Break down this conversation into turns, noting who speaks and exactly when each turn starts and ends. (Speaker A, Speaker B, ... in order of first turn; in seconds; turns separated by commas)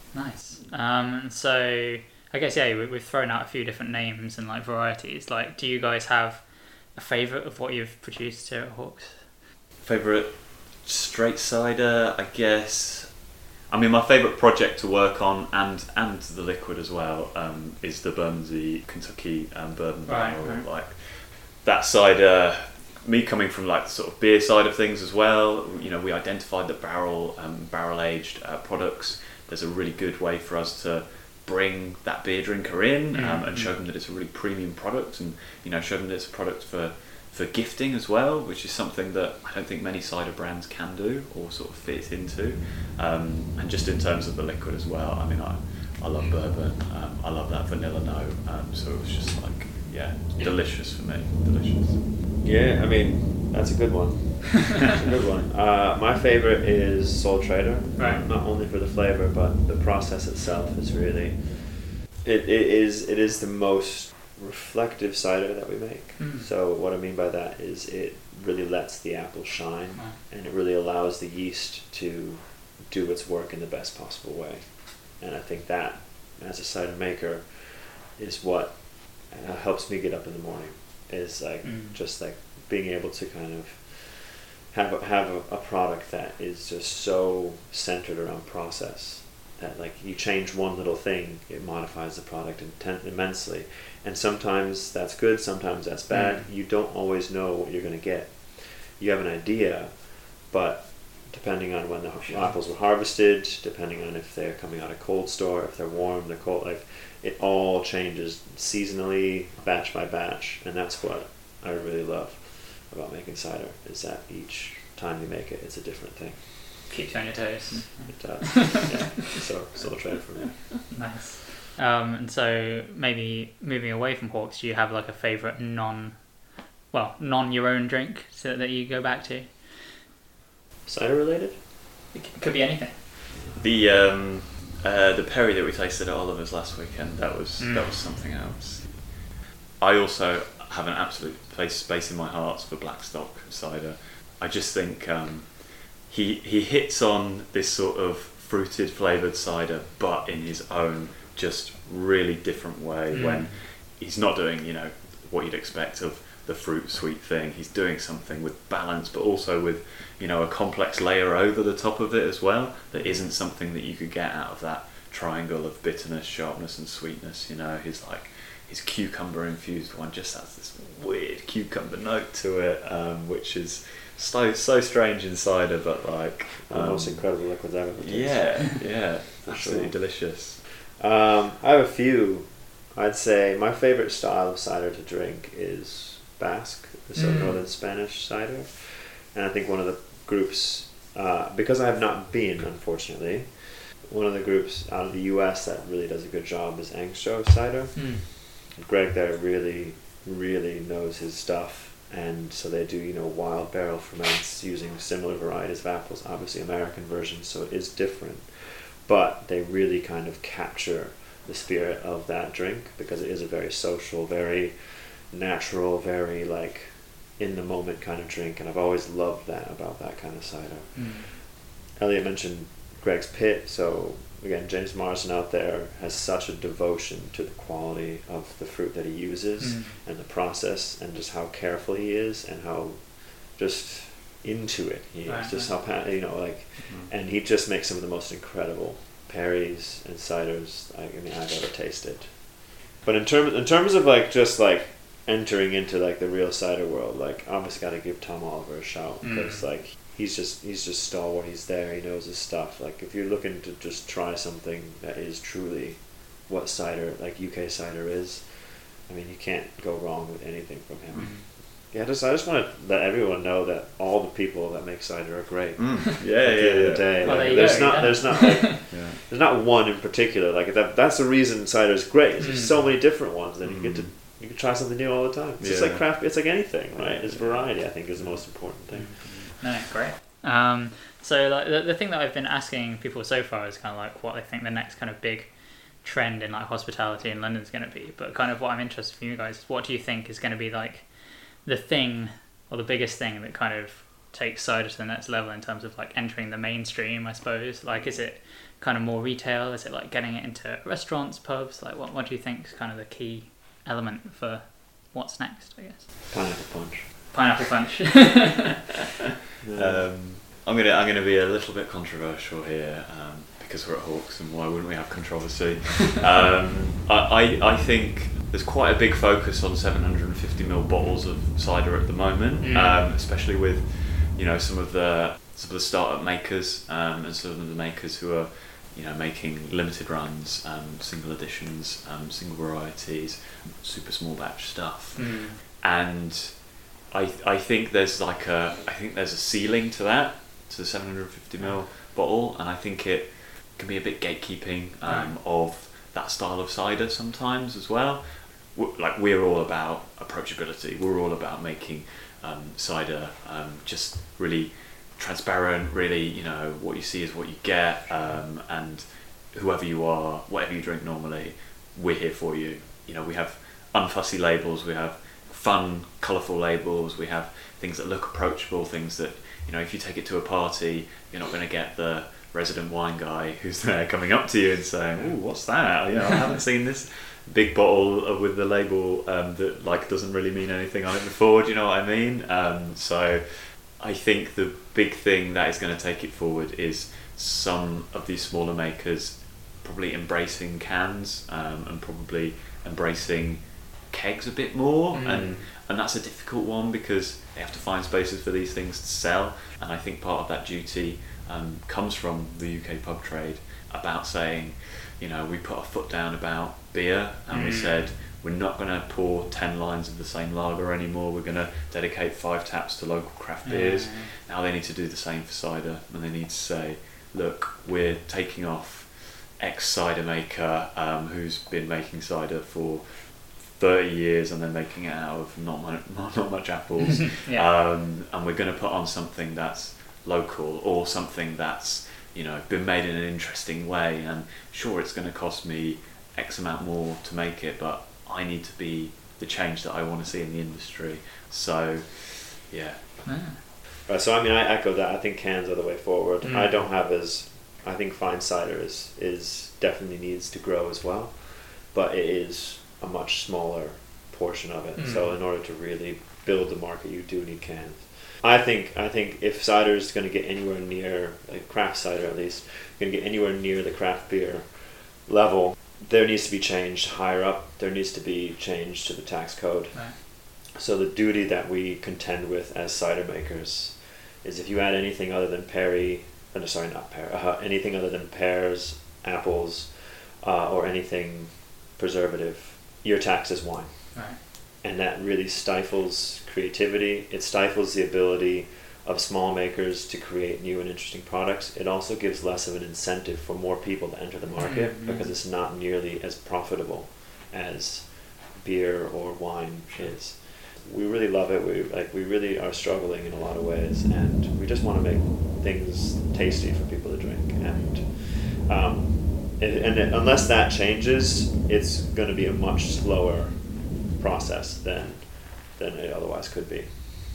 Speaker A: 0.1-9.3, Speaker B: 9.8-52.0, Speaker A: 20.1-20.7, Speaker A: 33.1-33.7, Speaker C: 52.4-116.9, Speaker B: 55.1-55.5, Speaker A: 58.0-58.2, Speaker A: 66.2-66.5, Speaker A: 81.6-82.0, Speaker A: 96.1-96.5, Speaker A: 102.2-102.6, Speaker A: 116.9-119.0, Speaker C: 118.1-120.9, Speaker A: 120.9-130.0, Speaker C: 130.8-131.6, Speaker A: 132.1-133.1, Speaker B: 133.5-139.3, Speaker A: 137.6-138.1, Speaker B: 139.8-180.6, Speaker A: 153.1-153.6, Speaker A: 162.9-163.2, Speaker C: 176.7-279.3, Speaker A: 187.1-187.6, Speaker A: 197.9-198.3, Speaker A: 220.9-221.3, Speaker A: 229.6-230.0, Speaker A: 235.2-235.7, Speaker B: 236.8-237.1, Speaker A: 249.2-249.7, Speaker A: 261.2-261.5, Speaker B: 265.8-269.2, Speaker A: 267.2-268.7, Speaker A: 272.4-272.9, Speaker B: 273.6-274.1, Speaker B: 275.6-279.5, Speaker A: 278.9-306.3, Speaker C: 306.3-307.2, Speaker A: 307.3-308.9, Speaker C: 309.6-310.1, Speaker B: 309.7-443.2, Speaker A: 322.6-323.0, Speaker A: 335.1-335.6, Speaker A: 345.0-345.3, Speaker A: 395.1-395.6, Speaker A: 407.5-408.1, Speaker A: 413.6-414.3, Speaker A: 427.4-427.7, Speaker A: 443.2-443.6, Speaker C: 444.1-517.3, Speaker A: 446.4-446.8, Speaker A: 455.0-455.3, Speaker A: 494.6-495.3